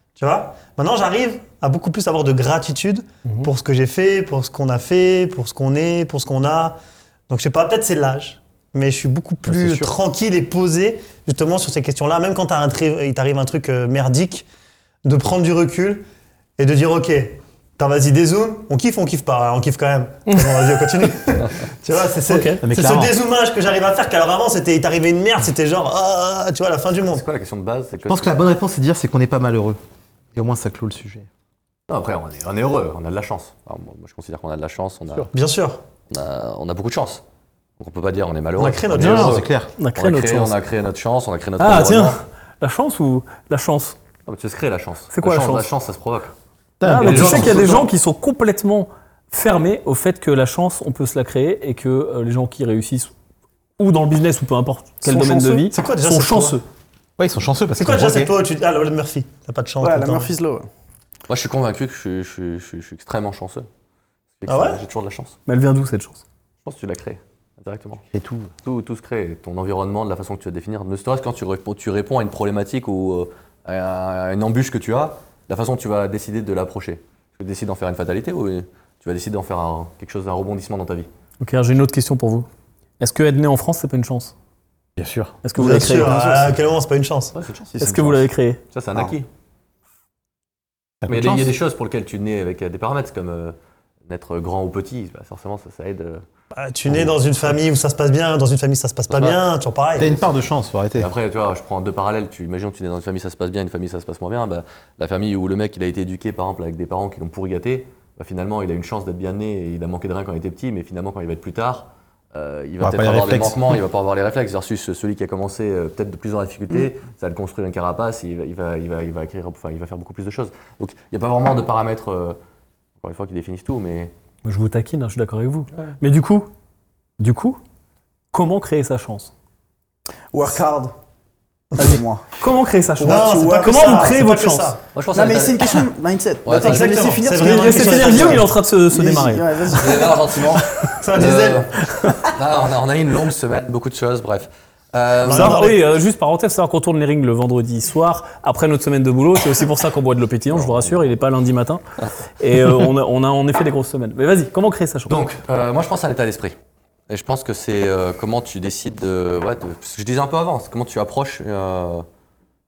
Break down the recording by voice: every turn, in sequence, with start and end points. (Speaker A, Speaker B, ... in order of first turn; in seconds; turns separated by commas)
Speaker A: 0.1-6.8, Speaker A: 7.3-14.4, Speaker B: 9.4-9.9, Speaker A: 15.0-16.0, Speaker A: 16.6-27.2, Speaker C: 20.3-20.7, Speaker C: 22.3-22.6, Speaker B: 22.6-23.1, Speaker D: 27.0-28.4, Speaker B: 28.1-29.8, Speaker B: 30.3-31.3, Speaker D: 31.9-35.3, Speaker A: 35.3-35.8, Speaker D: 36.1-37.2, Speaker D: 37.8-42.2, Speaker A: 38.6-39.4, Speaker B: 39.0-39.7, Speaker C: 39.8-40.5, Speaker C: 41.6-44.0, Speaker D: 44.2-46.3, Speaker C: 45.1-45.7, Speaker B: 46.8-47.9, Speaker C: 46.8-53.1, Speaker D: 47.0-47.8, Speaker C: 53.8-56.6, Speaker A: 55.0-56.6, Speaker B: 57.2-58.3, Speaker A: 57.8-60.3, Speaker E: 59.8-60.7, Speaker D: 61.3-63.7, Speaker D: 64.4-65.3, Speaker A: 64.5-64.8, Speaker C: 65.5-66.2, Speaker D: 66.6-68.0, Speaker B: 68.1-68.5, Speaker D: 68.6-81.1, Speaker C: 81.4-82.5, Speaker C: 83.0-84.3, Speaker B: 85.0-85.4, Speaker C: 85.4-86.3, Speaker A: 85.5-87.3, Speaker D: 85.9-86.5, Speaker D: 87.3-89.3, Speaker C: 87.8-88.6, Speaker B: 91.0-91.5, Speaker D: 91.1-93.5, Speaker D: 94.1-96.2, Speaker A: 96.5-100.2, Speaker D: 99.1-99.4, Speaker B: 100.0-101.1, Speaker D: 101.0-122.4, Speaker B: 112.8-113.7, Speaker D: 123.0-124.1, Speaker C: 124.4-126.5, Speaker C: 127.2-127.6, Speaker C: 128.3-129.3, Speaker E: 130.3-130.9, Speaker E: 131.8-132.3, Speaker C: 132.4-134.8, Speaker E: 133.0-134.2, Speaker A: 133.0-134.8, Speaker D: 134.9-135.8, Speaker E: 135.1-140.4, Speaker D: 136.4-137.2, Speaker A: 136.5-138.5, Speaker C: 137.4-140.0, Speaker D: 139.7-145.7, Speaker A: 140.8-141.7, Speaker A: 145.2-145.8, Speaker C: 145.3-151.8, Speaker D: 150.6-151.0, Speaker C: 152.4-155.2, Speaker D: 155.1-156.5, Speaker D: 157.1-162.1